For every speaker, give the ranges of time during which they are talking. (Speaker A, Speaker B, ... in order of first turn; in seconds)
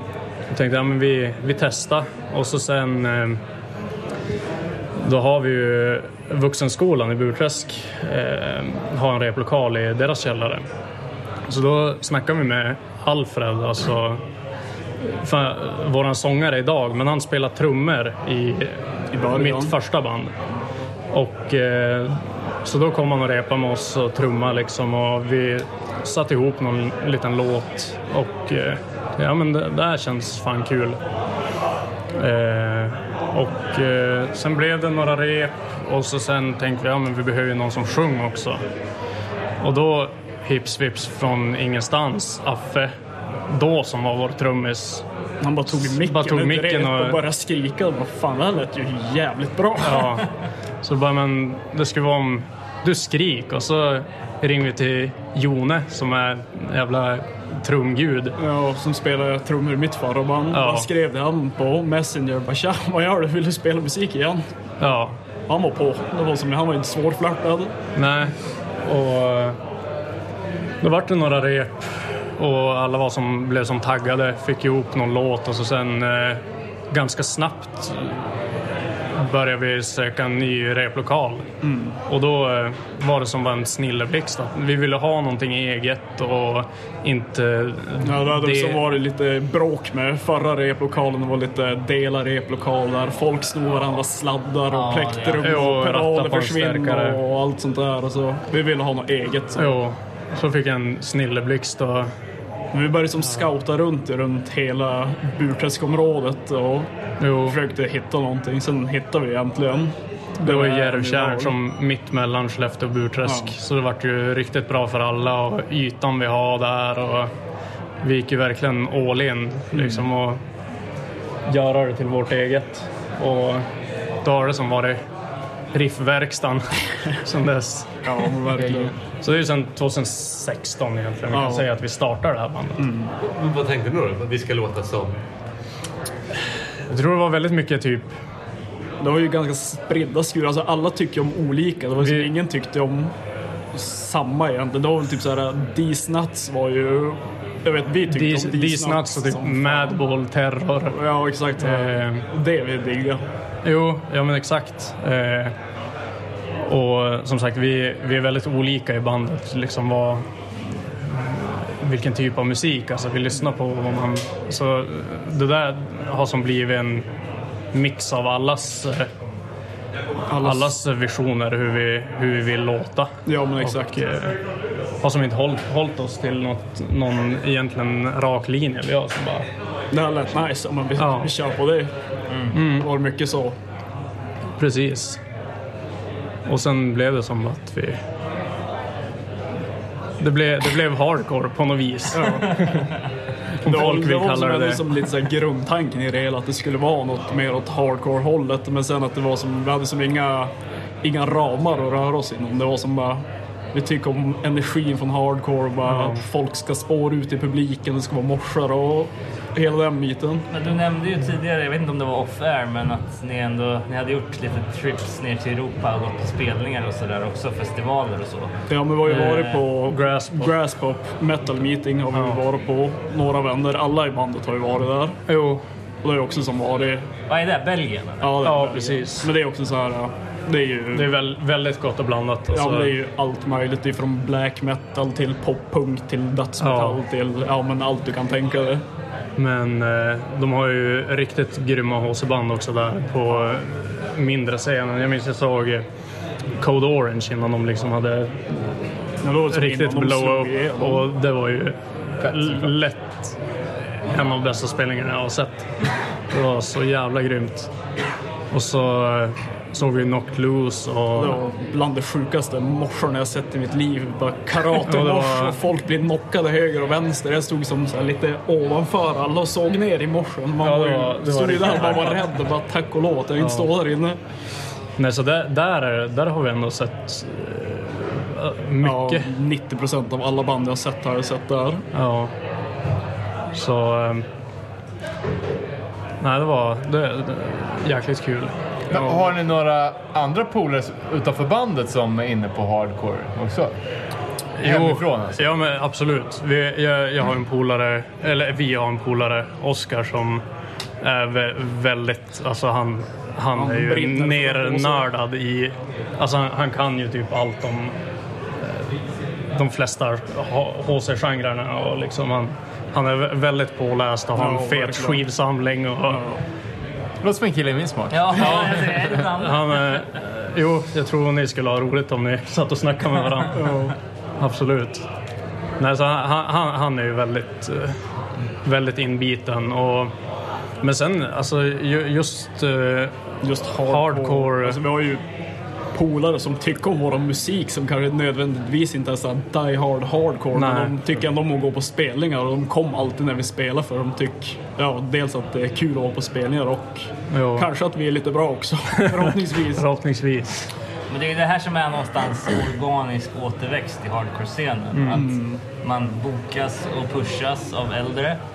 Speaker A: 0.5-3.4, 5.0-10.7, 11.5-14.2, 15.0-20.3, 21.1-31.0, 32.1-38.6, 39.6-42.9, 43.5-45.0, 45.7-47.2, 49.8-50.3, 50.8-58.3, 60.5-60.9, 64.8-65.2, 67.9-69.6, 70.8-78.4, 79.2-81.5, 82.1-88.9, 95.4-97.2, 99.5-102.1, 103.2-103.5, 107.2-107.6, 110.4-117.3, 118.0-120.4, 121.5-123.7, 124.2-125.0, 125.7-128.3, 129.2-132.9, 136.9-138.1, 142.0-142.3, 148.1-151.0, 151.6-152.2, 153.6-155.5, 156.7-167.1, 167.7-169.1, 170.4-174.4, 175.0-179.4, 181.0-181.3, 182.5-182.9, 184.6-185.2, 186.5-188.0, 190.2-192.9, 193.6-195.0, 205.8-206.2, 219.0-220.5, 222.1-222.4, 225.3-225.6, 228.4-229.3, 230.9-232.9, 236.6-237.0, 239.3-245.8, 246.6-253.4, 253.9-255.7, 256.3-257.7, 258.5-261.4, 264.6-265.6, 270.6-272.3, 273.4-273.7, 275.0-279.3, 281.9-282.3, 283.5-284.2, 286.2-288.5, 294.6-300.4, 301.0-307.9, 308.6-316.2, 318.3-323.8, 324.4-325.1, 325.8-328.0, 328.6-330.1, 330.8-333.1, 333.8-334.8, 340.5-340.9, 347.3-347.7, 349.0-350.6
Speaker B: 19.1-19.7, 45.4-50.2, 58.4-64.5, 65.5-67.7, 81.6-82.0, 88.0-99.8, 102.7-111.5, 113.2-113.5, 119.7-120.1, 128.0-128.9, 131.3-131.7, 132.8-133.1, 139.0-143.1, 143.7-150.0, 150.8-153.2, 170.3-170.7, 173.2-174.3, 179.9-181.9, 182.5-183.6, 192.1-192.8, 193.6-210.5, 218.7-225.2, 226.0-227.1, 228.2-231.2, 232.5-238.8, 243.3-243.6, 249.2-251.1, 261.1-274.2, 278.8-281.9, 288.9-289.3, 303.5-305.1, 314.3-315.2, 316.0-316.4, 323.5-323.9, 333.4-335.2, 335.9-349.9, 355.1-355.6
Speaker C: 94.7-95.8, 210.5-218.5, 227.3-228.4, 318.1-319.9, 351.1-358.4
Speaker D: 128.6-128.9, 288.9-293.7, 294.6-295.5, 317.2-318.9
Speaker E: 133.2-135.2